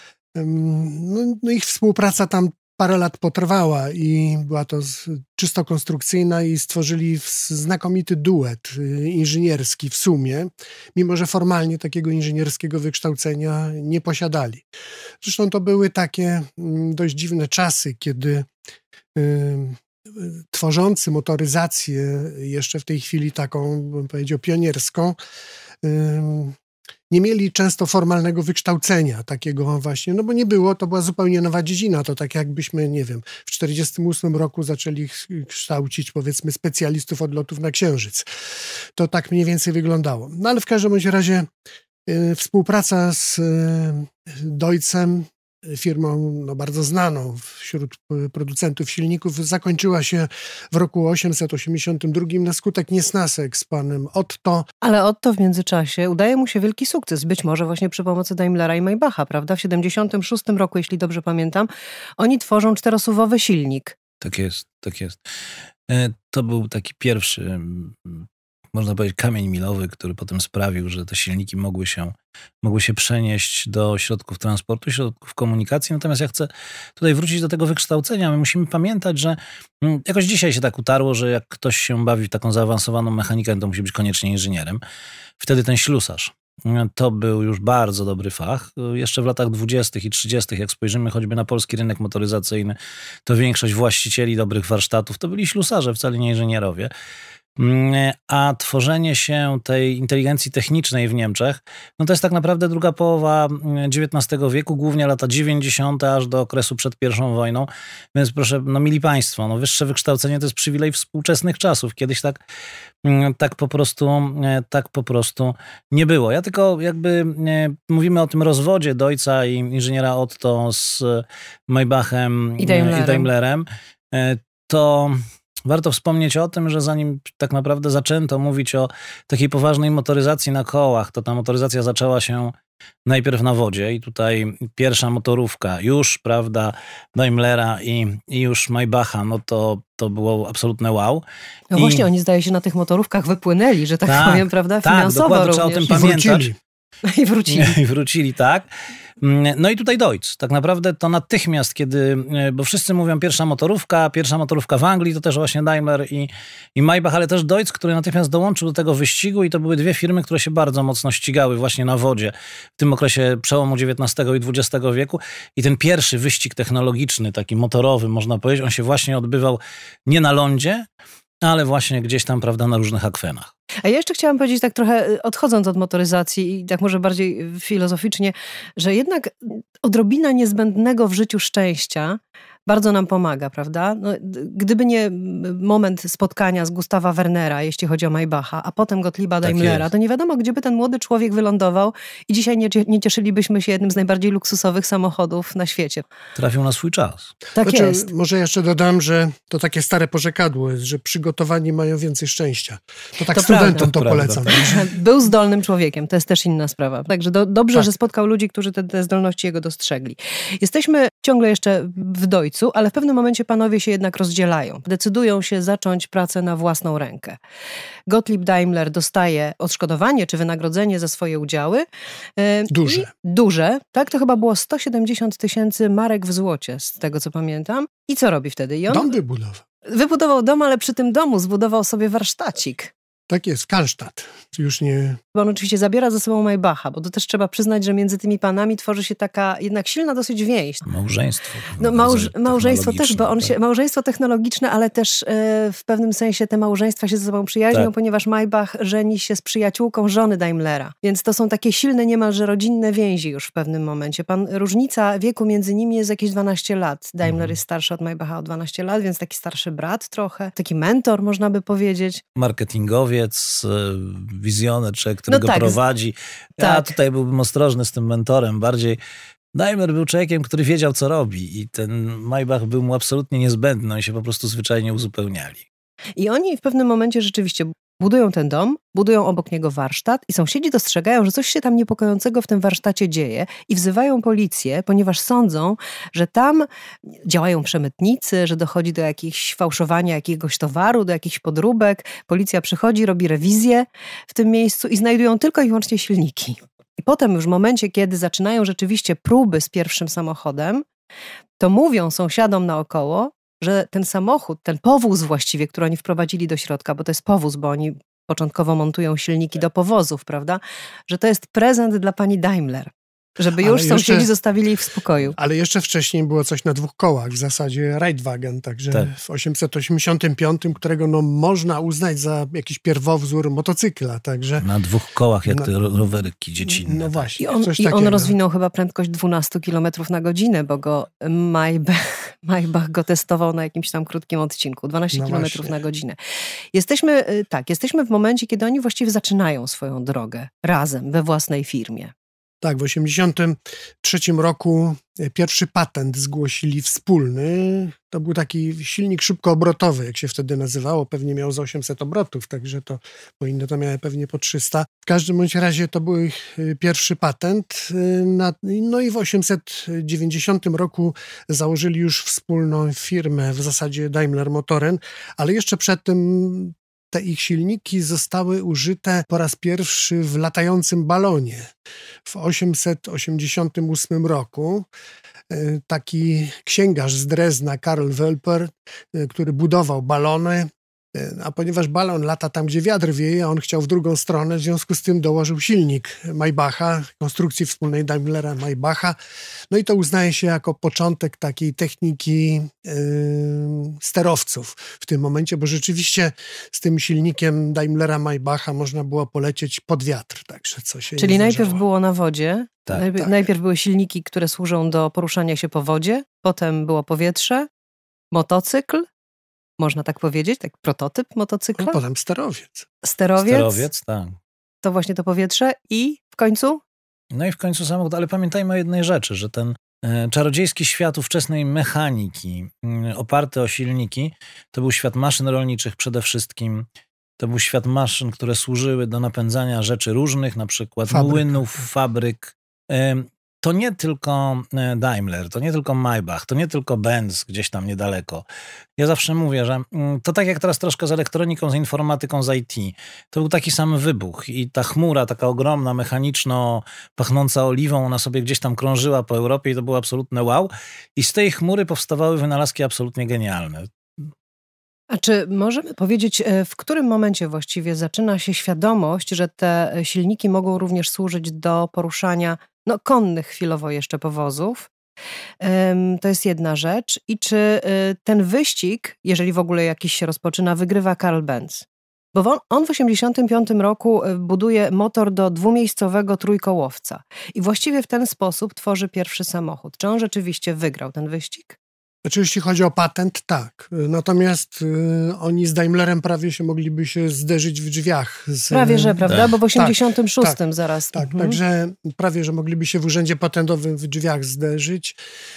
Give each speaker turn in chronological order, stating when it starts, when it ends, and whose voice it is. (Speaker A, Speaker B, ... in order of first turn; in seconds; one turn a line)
Speaker A: 0.3-14.6
Speaker A: 15.2-18.5
Speaker A: 19.1-25.2
Speaker A: 25.8-26.6
Speaker A: 27.1-38.3
Speaker A: 38.9-41.5
Speaker A: 42.0-54.7
Speaker B: 54.8-64.0
Speaker C: 64.2-65.2
Speaker C: 65.9-84.8
Speaker C: 85.4-96.9
Speaker C: 97.6-112.4
Speaker C: 113.0-132.5
Speaker B: 122.6-123.3
Speaker C: 133.1-141.2
Speaker B: 141.7-146.0
Speaker C: 141.7-142.1
Speaker C: 144.1-146.5
Speaker A: 145.9-146.6
Speaker B: 147.0-147.8
Speaker C: 147.5-148.7
Speaker C: 149.2-170.9
Speaker C: 171.4-173.5
Speaker B: 173.8-196.0
Speaker C: 189.4-189.9
Speaker C: 196.3-197.3
Speaker B: 197.6-198.1
Speaker A: 197.6-204.8
Speaker B: 203.3-203.9
Speaker C: 203.6-204.8
Speaker B: 204.5-217.4
Speaker B: 218.1-221.8
Speaker B: 222.4-229.1
Speaker A: 222.7-223.1
Speaker A: 228.9-229.6
Speaker B: 229.8-232.9
Speaker A: 233.3-235.2
Speaker B: 235.3-240.8
Speaker C: 240.8-243.5
Speaker B: 241.8-262.2
Speaker C: 257.2-257.5
Speaker C: 262.4-269.0
Speaker B: 265.3-265.8
Speaker B: 266.6-266.9
Speaker C: 269.5-275.6
Speaker B: 276.2-286.7
Speaker B: 287.2-300.9
Speaker B: 301.6-315.4
Speaker A: 313.6-314.3
Speaker A: 315.4-324.7
Speaker C: 324.6-327.4
Speaker A: 325.4-325.7
Speaker A: 326.6-328.3
Speaker B: 327.4-336.2
Speaker A: 335.1-335.8
Speaker B: 336.7-342.1
Speaker A: 342.6-371.7
Speaker A: 372.2-374.9
Speaker A: 375.5-389.2
Speaker A: 389.7-401.8
Speaker B: 401.1-407.7
Speaker A: 403.0-403.3
Speaker B: 408.3-409.1
Speaker B: 409.8-412.0
Speaker A: 411.8-412.9
Speaker B: 413.0-413.8
Speaker C: 413.4-414.4
Speaker B: 414.8-416.8
Speaker C: 417.3-426.9
Speaker C: 427.4-438.4
Speaker A: 431.1-431.6
Speaker C: 439.0-453.9
Speaker B: 455.1-464.9
Speaker B: 465.6-481.8
Speaker A: 482.2-490.6
Speaker B: 488.7-491.6
Speaker A: 491.1-495.2